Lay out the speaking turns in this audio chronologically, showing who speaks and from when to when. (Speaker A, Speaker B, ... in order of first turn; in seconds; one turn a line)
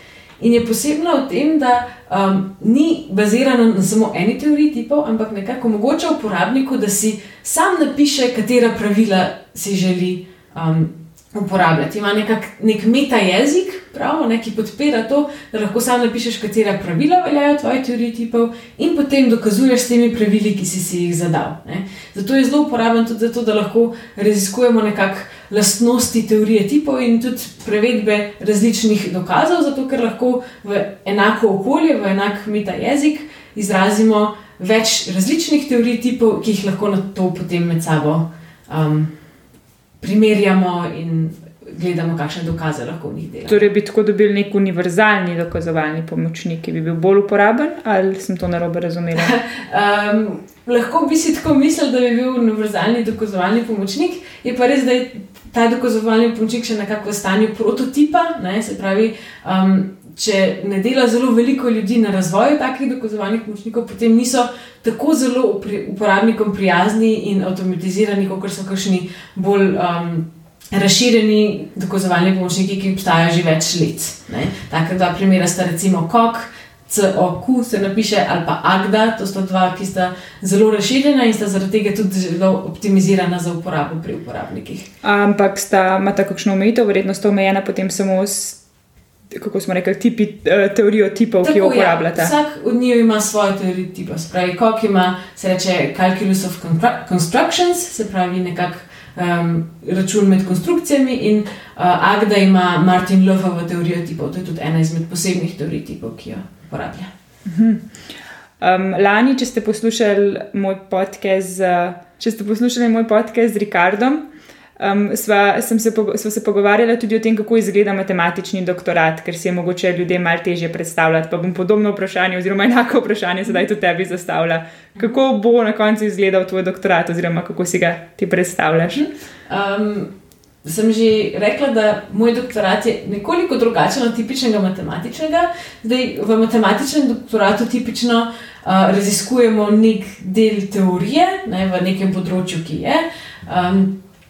Speaker A: 0.4-39.1
Speaker A: 40.0-43.7
Speaker B: 43.5-49.4
Speaker A: 49.2-84.9
Speaker B: 85.0-88.6
Speaker B: 89.3-92.3
Speaker A: 91.4-107.1
Speaker B: 107.5-107.9
Speaker B: 108.6-114.2
Speaker B: 114.8-129.1
Speaker A: 129.5-130.1
Speaker A: 130.6-143.9